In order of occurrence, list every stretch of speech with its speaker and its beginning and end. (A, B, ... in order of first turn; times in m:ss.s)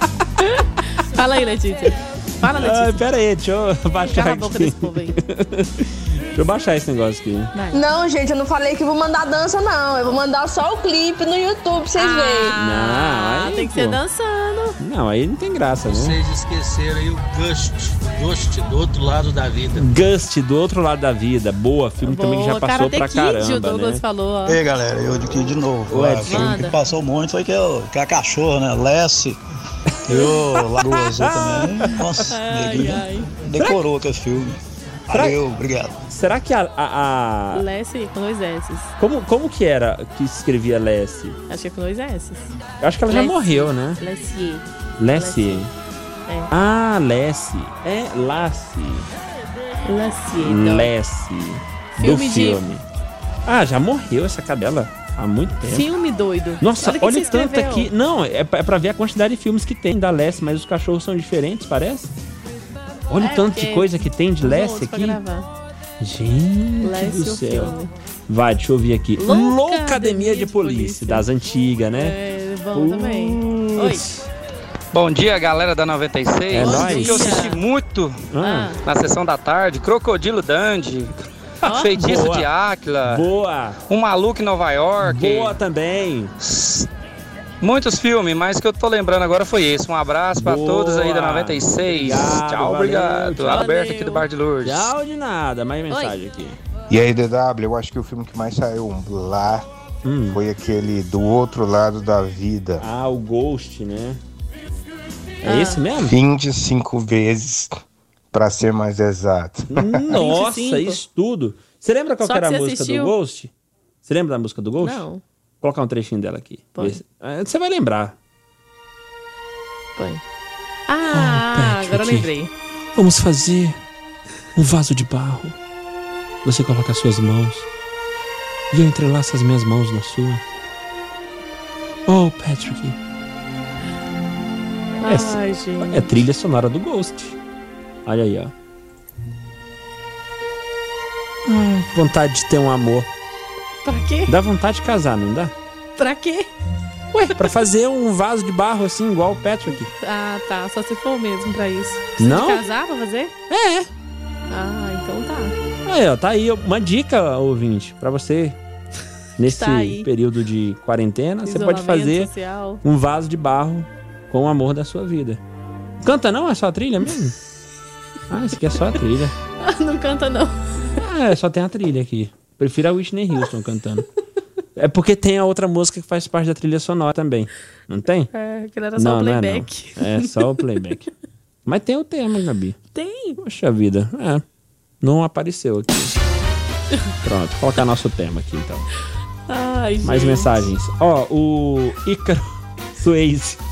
0:00.4-0:03.1 A
0:02.4-0:07.5 B
0:04.0-0:05.2 A
0:07.5-0:07.9 A
0:07.7-0:12.6 C
0:12.0-0:14.8 A
0:12.5-0:14.0 B
0:14.8-0:16.2 B
0:15.8-0:19.9 D
0:19.7-0:24.0 B
0:22.0-0:24.6 A
0:24.4-0:29.4 E
0:25.9-0:26.6 B
0:26.2-0:26.8 A
0:30.0-0:35.9 E
0:30.1-0:32.1 B
0:32.3-0:33.3 A
0:35.1-0:35.4 B
0:36.1-0:37.6 B
0:37.5-0:38.9 A
0:39.0-0:41.4 B
0:41.5-0:42.5 A
0:42.8-0:44.0 B
0:43.1-0:45.7 A
0:45.0-0:45.7 B
0:46.5-0:49.1 B
0:49.8-0:50.9 A
0:50.4-0:52.8 B
0:51.9-0:52.6 A
0:53.4-0:55.9 B
0:55.6-0:57.9 A
0:56.6-1:02.1 B
1:03.1-1:05.2 B
1:03.2-1:05.5 A
1:06.0-1:07.8 B
1:06.8-1:07.9 A
1:08.3-1:12.1 B
1:09.2-1:11.3 A
1:11.9-1:14.1 A
1:12.7-1:14.2 B
1:14.9-1:18.2 F
1:16.5-1:17.4 B
1:16.6-1:17.6 A
1:18.3-1:18.7 B
1:18.4-1:18.8 A
1:18.8-1:23.2 F
1:21.6-1:22.5 B
1:21.7-1:21.9 A
1:23.0-1:23.8 B
1:23.9-1:25.6 F
1:25.0-1:26.3 B
1:26.4-1:26.9 F
1:27.6-1:34.9 F
1:30.4-1:33.7 B
1:33.5-1:34.3 A
1:34.6-1:36.6 B
1:35.9-1:36.2 A
1:36.9-1:39.6 G
1:40.0-1:40.4 B
1:40.3-1:42.8 G
1:42.8-1:44.2 B
1:45.4-1:46.1 B
1:45.4-1:45.8 A
1:46.0-1:47.8 G
1:48.3-1:50.2 G
1:49.7-1:53.5 B
1:50.1-1:51.0 A
1:52.2-1:53.2 A
1:54.0-1:55.0 B
1:54.8-1:55.2 A
1:55.6-1:58.2 B
1:56.8-1:57.0 A
2:00.0-2:00.2 A
2:00.9-2:02.5 A
2:01.1-2:02.3 B
2:02.9-2:03.8 B
2:04.5-2:05.6 B
2:06.4-2:07.7 B
2:08.7-2:10.4 B
2:12.0-2:13.0 B
2:15.0-2:16.1 A
2:15.0-2:17.4 B
2:18.0-2:18.5 B
2:21.4-2:23.1 B
2:23.8-2:24.4 A
2:24.3-2:25.5 B
2:26.0-2:26.5 A
2:27.1-2:29.9 B
2:30.0-2:33.3 A
2:32.2-2:32.6 B
2:33.5-2:33.9 B
2:34.5-2:35.6 A
2:35.8-2:38.6 B
2:39.4-2:42.3 B
2:39.4-2:40.1 A
2:41.4-2:42.8 A
2:42.8-2:45.4 B
2:46.0-2:47.4 B
2:48.3-2:49.3 B
2:49.6-2:50.6 A
2:51.0-2:54.1 B
2:54.8-2:58.3 B
2:58.3-3:00.5 A
2:59.0-3:01.1 B
3:01.6-3:02.8 B
3:02.9-3:03.4 A
3:03.4-3:04.4 B
3:05.0-3:06.2 B
3:07.2-3:08.9 B
3:09.5-3:10.7 A
3:10.0-3:13.6 B